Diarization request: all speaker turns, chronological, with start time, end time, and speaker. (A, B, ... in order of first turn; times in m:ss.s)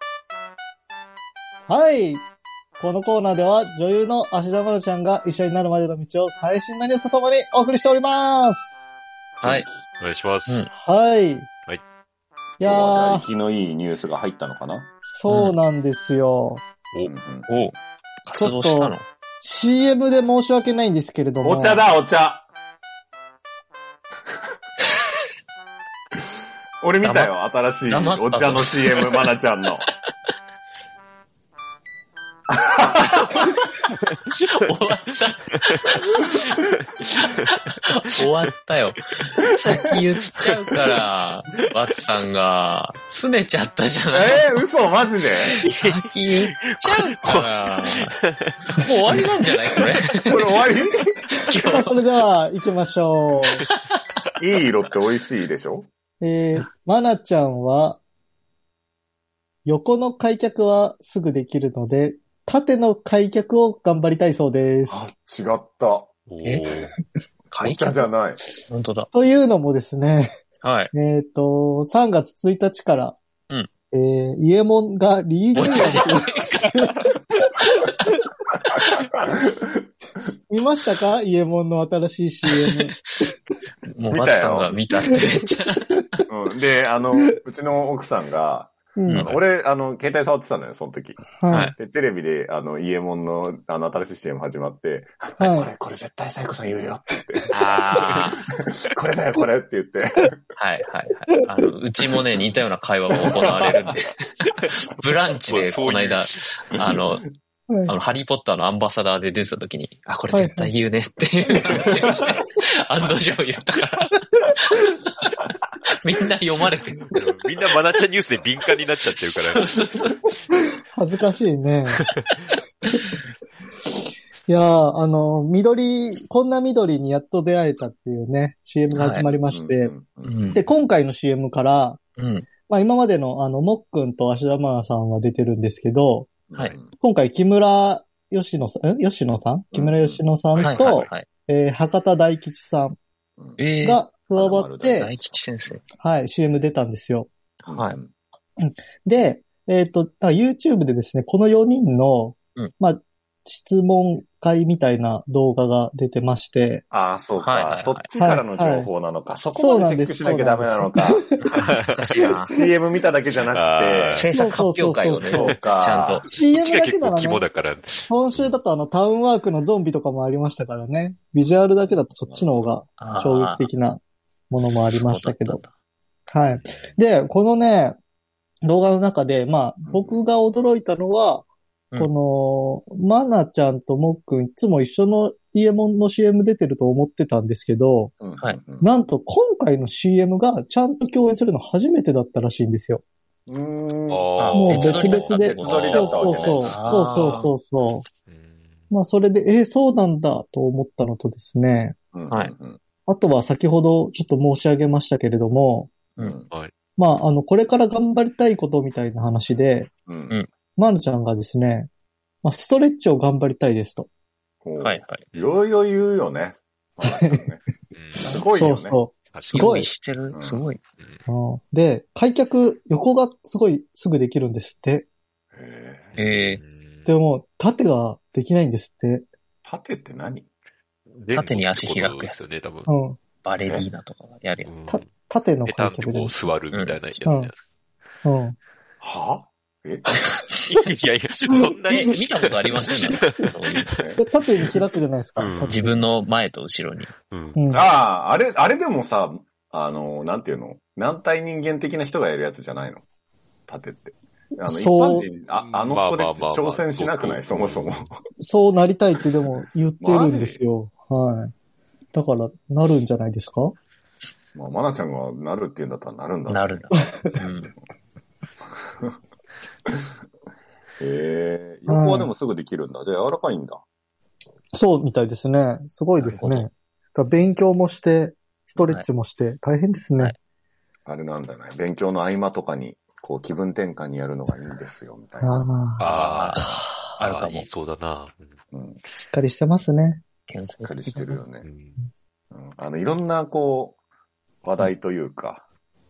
0:01.7-0:02.2 A
0:02.8-0:08.8 A
0:09.4-0:09.8 B
0:09.4-0:09.7 C
0:10.0-0:10.6 D
0:10.7-0:11.5 A
0:12.6-0:13.2 A
0:12.6-0:14.9 B
0:15.1-0:16.6 A
0:15.3-0:15.5 C
0:17.0-0:17.5 B
0:17.5-0:19.0 C
0:18.3-0:21.8 A
0:21.4-0:22.5 B
0:26.8-0:29.9 B
0:27.0-0:27.3 C
0:27.9-0:29.2 C
0:32.5-0:33.5 B
0:34.5-0:36.4 C
0:37.2-0:44.5 C
0:44.1-0:45.5 B
0:45.5-0:48.1 C
0:45.7-0:49.2 D
0:48.7-0:50.3 C
0:50.1-0:51.1 B
0:51.4-0:51.9 C
0:51.6-0:53.6 A
0:53.7-0:54.0 C
0:54.4-0:55.9 B
0:56.2-0:58.0 A
0:59.6-1:05.0 A
1:04.9-1:06.1 B
1:06.3-1:06.9 D
1:06.4-1:06.7 C
1:07.5-1:08.1 C
1:07.6-1:08.4 B
1:08.7-1:09.1 C
1:09.1-1:10.3 A
1:10.6-1:10.9 C
1:10.9-1:13.2 A
1:13.9-1:18.1 A
1:15.5-1:16.7 C
1:18.6-1:19.8 B
1:20.5-1:23.0 A
1:22.5-1:22.9 C
1:23.9-1:26.2 C
1:24.1-1:24.8 B
1:26.3-1:31.2 B
1:29.0-1:29.3 A
1:31.4-1:31.7 A
1:31.5-1:31.7 C
1:31.8-1:40.4 B
1:35.4-1:35.7 A
1:37.5-1:38.4 C
1:40.6-1:47.2 C
1:43.2-1:43.9 B
1:45.5-1:46.4 D
1:47.8-1:54.9 C
1:50.3-1:50.7 A
1:55.9-1:57.0 C
1:57.1-1:59.8 D
1:59.2-2:00.2 C
2:00.9-2:02.0 A
2:04.5-2:09.9 A
2:08.9-2:09.3 C
2:09.5-2:10.4 B
2:10.2-2:10.7 C
2:10.5-2:12.0 A
2:12.2-2:12.5 C
2:12.7-2:16.3 A
2:16.5-2:16.9 B
2:17.0-2:23.0 A
2:19.7-2:20.2 B
2:20.5-2:21.0 D
2:20.6-2:21.2 C
2:23.6-2:24.0 C
2:23.8-2:25.1 A
2:24.3-2:25.8 B
2:24.8-2:25.8 C
2:26.0-2:27.3 A
2:27.6-2:28.0 C
2:27.7-2:28.1 B
2:28.6-2:36.8 A
2:36.9-2:41.3 B
2:37.4-2:38.1 C
2:38.2-2:38.9 A
2:39.5-2:41.6 A
2:41.4-2:42.5 C
2:41.5-2:42.2 D
2:42.2-2:42.6 A
2:42.5-2:44.3 B
2:43.5-2:44.3 D
2:44.1-2:46.2 C
2:44.3-2:45.6 A
2:45.2-2:46.2 B
2:46.2-2:47.5 A
2:46.5-2:48.5 D
2:48.1-2:55.6 A
2:52.1-2:52.7 B
2:53.0-2:53.7 C
2:54.6-2:55.7 C
2:56.3-2:58.0 A
2:56.6-2:57.0 D
2:58.6-3:08.1 A
2:59.8-3:00.2 B
3:08.2-3:08.9 B
3:08.8-3:13.0 A
3:13.5-3:16.9 B
3:14.1-3:16.6 D
3:14.4-3:17.5 C
3:14.6-3:18.0 A
3:18.3-3:18.9 D
3:18.9-3:22.0 A
3:22.1-3:22.8 B
3:23.1-3:26.0 A
3:26.2-3:26.5 B
3:27.0-3:29.9 A
3:30.0-3:30.4 B
3:30.8-3:31.9 A
3:32.4-3:34.1 A
3:34.6-3:37.6 B
3:34.8-3:35.2 C
3:37.0-3:37.4 A
3:37.9-3:38.3 D
3:38.2-3:39.0 B
3:38.5-3:39.9 A
3:39.3-3:39.7 D
3:39.4-3:40.8 C
3:40.3-3:40.6 B
3:41.3-3:45.0 A
3:45.5-3:46.1 B
3:46.1-3:47.1 D
3:46.2-3:46.6 C
3:47.1-3:49.2 A
3:49.6-3:50.5 B
3:51.1-3:52.9 D
3:51.3-3:52.4 C
3:52.9-3:53.2 A
3:53.4-3:54.7 C
3:54.6-3:55.1 D
3:54.9-3:56.4 A
3:55.6-3:57.6 D
3:56.7-3:57.2 C
3:57.2-3:57.5 A
3:58.2-3:58.6 A
3:59.0-4:00.1 B
4:00.7-4:04.1 D
4:01.9-4:03.9 C
4:03.9-4:04.2 B
4:04.2-4:05.9 A
4:05.4-4:05.9 D
4:05.7-4:07.1 C
4:07.3-4:07.8 D
4:07.6-4:07.8 A
4:07.7-4:13.0 B
4:13.7-4:18.2 B
4:14.6-4:15.3 A
4:15.6-4:18.1 D
4:18.4-4:21.5 A
4:20.0-4:20.6 B
4:22.1-4:23.8 A
4:24.5-4:26.8 B
4:26.5-4:27.7 C
4:26.9-4:27.4 A
4:28.8-4:29.1 B
4:31.0-4:33.8 B
4:31.9-4:32.3 A
4:34.7-4:40.3 A
4:36.2-4:36.7 C
4:38.8-4:39.0 C
4:41.0-4:46.8 B
4:45.4-4:46.1 A
4:46.0-4:48.5 D
4:46.1-4:47.7 C
4:48.7-4:49.0 B
4:49.1-4:50.2 A
4:50.5-4:51.4 C
4:50.8-4:51.7 B
4:51.6-4:52.0 D
4:52.5-4:54.0 B
4:54.6-4:55.6 B